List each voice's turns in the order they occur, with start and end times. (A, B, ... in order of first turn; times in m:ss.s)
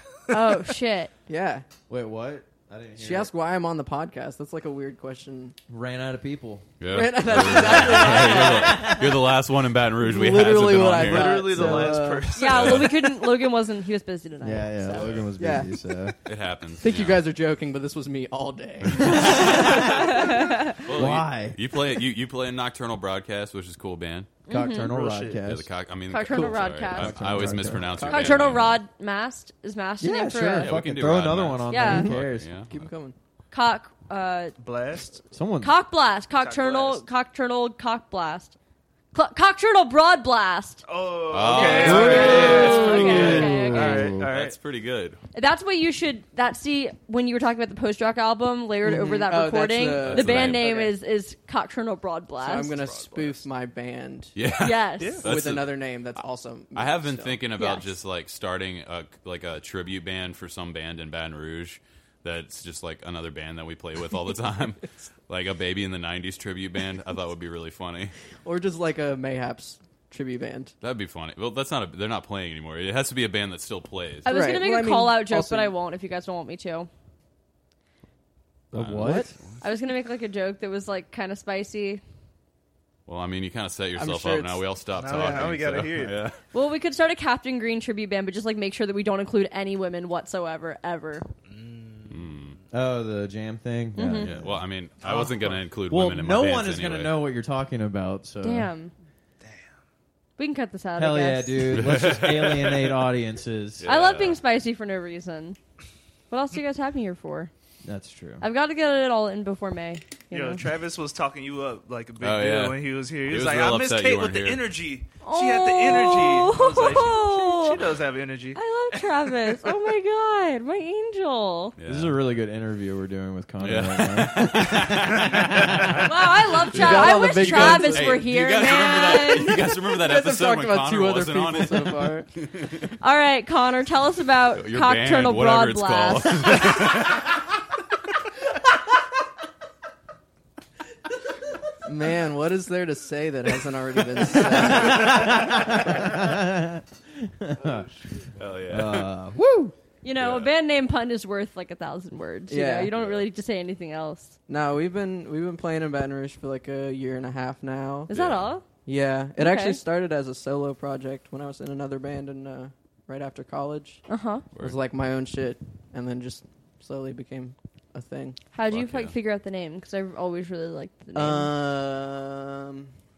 0:00.3-0:01.1 A
0:01.3-0:01.6 B
0:01.9-0:03.3 C
0:03.0-0:05.6 B
0:05.7-0:09.3 C
0:06.8-0:11.5 D
0:06.9-0:09.0 B
0:10.0-0:12.4 B
0:11.0-0:13.0 E
0:11.3-0:12.2 C
0:12.3-0:15.1 A
0:12.5-0:13.0 D
0:14.4-0:16.1 C
0:14.8-0:15.7 B
0:14.9-0:15.3 D
0:16.2-0:17.2 D
0:16.8-0:20.4 B
0:18.8-0:19.3 D
0:19.0-0:20.2 C
0:19.4-0:20.7 A
0:20.8-0:24.3 D
0:20.9-0:21.6 C
0:24.5-0:24.9 A
0:24.5-0:25.7 C
0:24.9-0:25.4 E
0:25.4-0:28.8 D
0:26.1-0:27.3 A
0:26.8-0:28.2 C
0:27.4-0:28.5 B
0:28.0-0:30.7 A
0:30.0-0:32.5 C
0:30.6-0:32.7 D
0:31.7-0:32.1 A
0:32.7-0:33.2 B
0:33.5-0:34.5 A
0:34.6-0:35.2 E
0:35.3-0:35.7 C
0:35.6-0:38.5 A
0:36.4-0:37.0 E
0:39.1-0:40.8 A
0:40.8-0:44.6 E
0:41.3-0:45.2 D
0:41.6-0:43.6 B
0:41.7-0:44.1 A
0:41.7-0:44.3 C
0:45.3-0:52.8 A
0:48.8-0:50.9 B
0:50.0-0:50.6 D
0:52.4-0:54.4 B
0:54.3-0:55.8 D
0:54.6-0:55.2 A
0:55.0-0:55.3 E
0:55.2-0:57.4 B
0:56.7-1:08.1 D
0:57.6-0:57.9 A
1:08.4-1:10.7 B
1:10.8-1:14.3 D
1:14.2-1:16.9 A
1:14.3-1:15.7 B
1:18.7-1:19.3 C
1:18.7-1:19.6 D
1:19.0-1:19.3 B
1:19.6-1:22.0 A
1:23.1-1:26.4 D
1:24.0-1:24.6 B
1:24.9-1:26.2 E
1:26.5-1:31.2 A
1:31.5-1:32.3 E
1:32.1-1:32.6 D
1:32.7-1:35.3 C
1:34.0-1:34.3 A
1:34.2-1:37.2 D
1:35.9-1:38.7 C
1:38.4-1:38.9 A
1:40.4-1:41.8 A
1:41.0-1:43.9 C
1:41.7-1:43.0 D
1:43.8-1:44.4 D
1:43.8-1:45.6 A
1:46.3-1:47.5 A
1:47.8-1:48.4 C
1:48.4-1:50.6 A
1:50.3-1:59.6 E
1:52.2-1:54.7 D
1:55.2-1:57.9 A
1:58.5-2:01.7 A
2:01.8-2:02.2 D
2:01.9-2:06.1 C
2:03.6-2:05.9 D
2:06.0-2:09.7 A
2:06.7-2:08.3 B
2:06.7-2:12.9 D
2:09.6-2:12.3 B
2:13.0-2:16.7 A
2:14.6-2:17.3 D
2:21.8-2:25.3 B
2:24.5-2:27.9 C
2:28.4-2:29.1 D
2:28.7-2:29.7 C
2:30.0-2:34.4 A
2:30.2-2:30.5 D
2:32.5-2:32.9 B
2:32.9-2:33.2 D
2:34.5-2:38.1 B
2:38.1-2:38.7 A
2:38.1-2:38.5 D
2:38.8-2:44.0 B
2:39.4-2:39.8 A
2:44.1-2:44.4 A
2:44.6-2:48.4 B
2:48.5-2:51.5 A
2:48.7-2:49.1 D
2:51.1-2:52.9 B